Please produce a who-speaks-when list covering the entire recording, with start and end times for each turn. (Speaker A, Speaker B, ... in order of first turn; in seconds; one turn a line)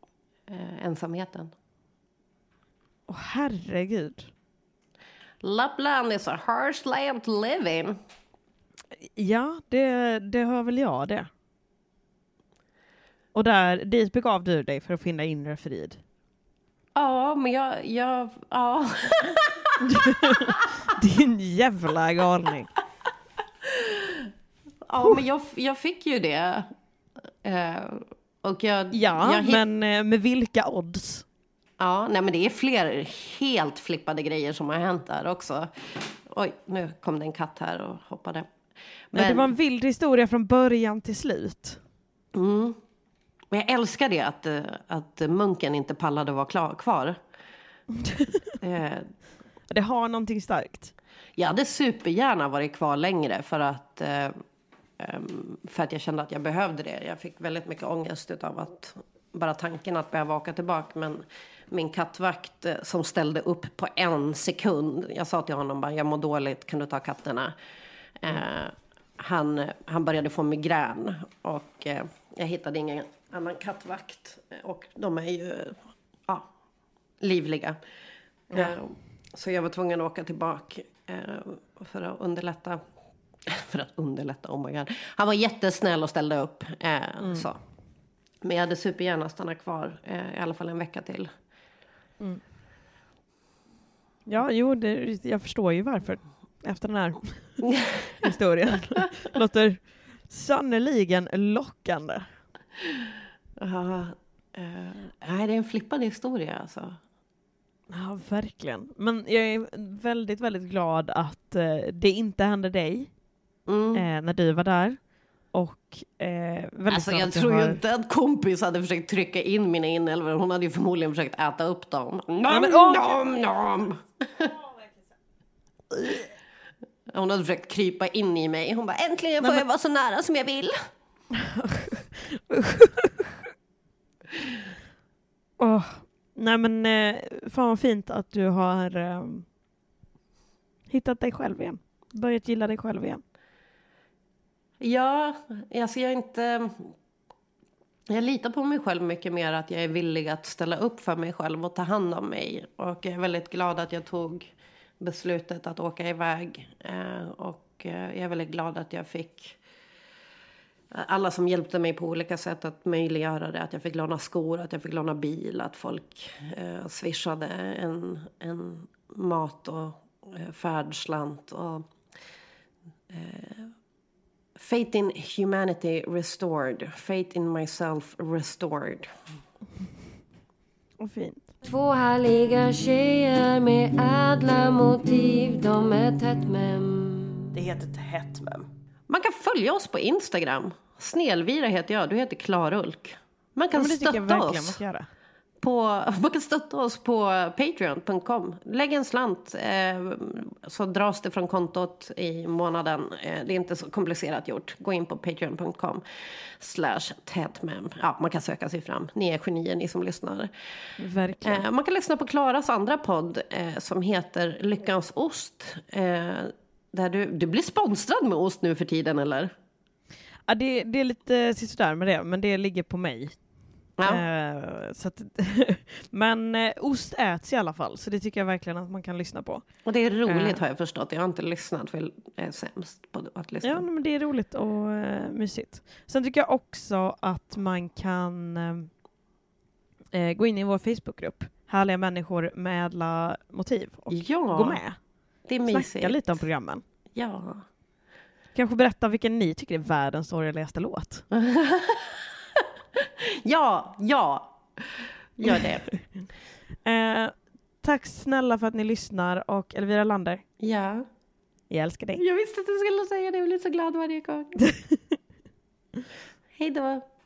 Speaker A: 0.5-1.5
Speaker B: 3.1-4.3
Speaker A: 5.4-8.0
Speaker B: 9.2-11.3
Speaker B: 13.3-16.0
Speaker A: 16.9-20.3
Speaker B: 19.9-22.7
Speaker A: 23.7-24.3
Speaker A: 24.9-26.7
Speaker A: 27.4-29.6
Speaker B: 28.9-31.3
Speaker A: 31.8-38.5
Speaker A: 39.1-39.5
Speaker B: 39.1-41.8
Speaker A: 42.3-42.8
Speaker A: 43.5-47.2
Speaker A: 48.6-49.1
Speaker B: 49.7-50.9
Speaker A: 51.4-54.4
Speaker A: 55.0-67.5
Speaker A: 68.2-76.5
Speaker A: 77.2-77.8
Speaker A: 78.5-82.8
Speaker A: 83.5-87.6
Speaker B: 87.2-87.5
Speaker A: 88.4-91.3
Speaker B: 94.3-97.6
Speaker A: 97.6-98.2
Speaker B: 98.2-102.3
Speaker A: 103.6-107.0
Speaker B: 107.9-113.1
Speaker A: 113.7-114.0
Speaker B: 113.9-115.0
Speaker B: 115.5-117.8
Speaker A: 116.9-124.5
Speaker B: 122.5-123.2
Speaker B: 125.9-126.2
Speaker A: 127.1-130.8
Speaker B: 131.3-133.4
Speaker B: 135.6-139.5
Speaker B: 140.9-143.2
Speaker A: 144.8-146.9
Speaker A: 148.1-159.6
Speaker A: 160.9-171.9
Speaker A: 173.1-173.7
Speaker A: 174.6-179.1
Speaker B: 181.0-181.5
Speaker C: 181.6-187.5
Speaker B: 187.5-188.7
Speaker A: 189.1-194.8
Speaker B: 193.7-195.1
Speaker A: 195.6-210.5
Speaker B: 211.0-211.7
Speaker A: 211.4-219.5
Speaker B: 220.5-223.4
Speaker A: 224.0-224.2
Speaker B: 224.0-229.6
Speaker A: 229.8-233.8
Speaker B: 230.3-230.6
Speaker B: 233.6-238.9
Speaker B: 240.1-245.0
Speaker A: 244.1-244.8
Speaker A: 245.5-246.2
Speaker B: 245.7-246.8
Speaker A: 247.1-247.6
Speaker B: 248.5-251.2
Speaker A: 251.3-255.9
Speaker B: 256.9-260.4
Speaker A: 260.6-261.1
Speaker B: 261.7-262.2
Speaker A: 262.2-264.6
Speaker A: 266.6-267.0